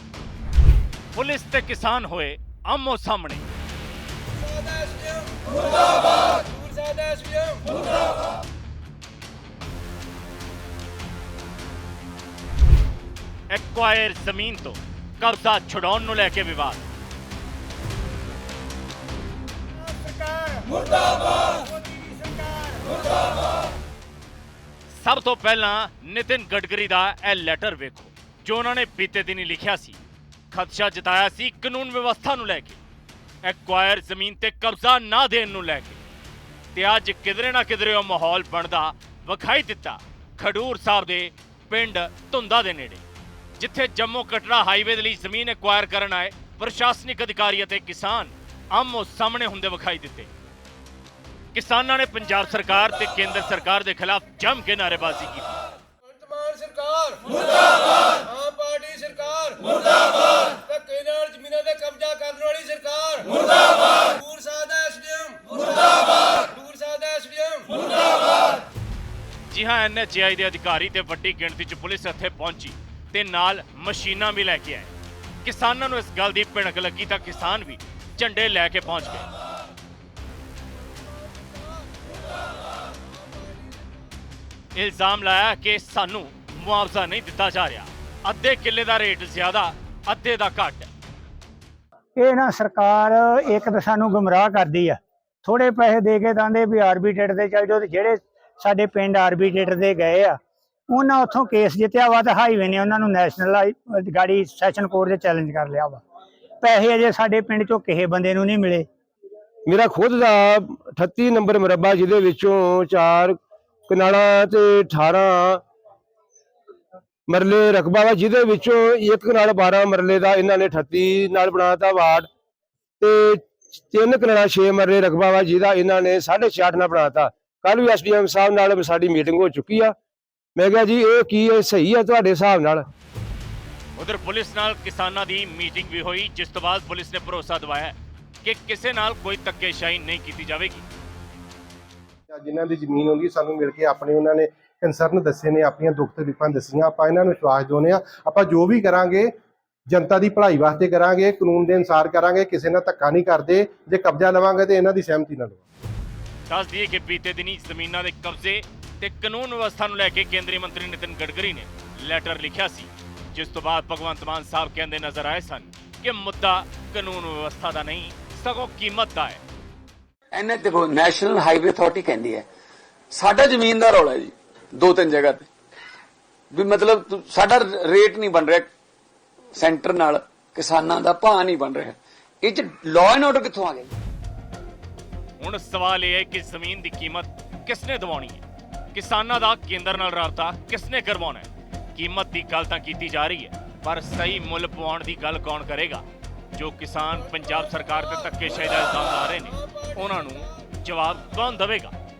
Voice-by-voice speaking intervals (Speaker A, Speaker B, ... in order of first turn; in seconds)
Speaker A: 1.1-3.5, 13.5-16.8, 24.9-30.0, 30.5-32.8, 33.4-36.0, 36.7-43.0, 43.6-50.3, 51.5-55.5, 69.5-74.9, 75.4-79.3, 84.7-90.9, 134.0-140.8, 156.5-169.4, 185.4-201.9
Speaker B: 4.4-7.8, 56.2-68.0
Speaker C: 19.8-22.9, 92.2-100.3, 100.9-106.0, 106.6-108.8
Speaker D: 109.7-113.4, 113.9-115.6, 117.3-122.3, 123.0-129.9, 130.6-132.8
Speaker E: 142.3-149.3, 149.9-155.6
Speaker F: 170.3-172.4, 173.1-175.5, 176.5-178.7, 179.5-183.9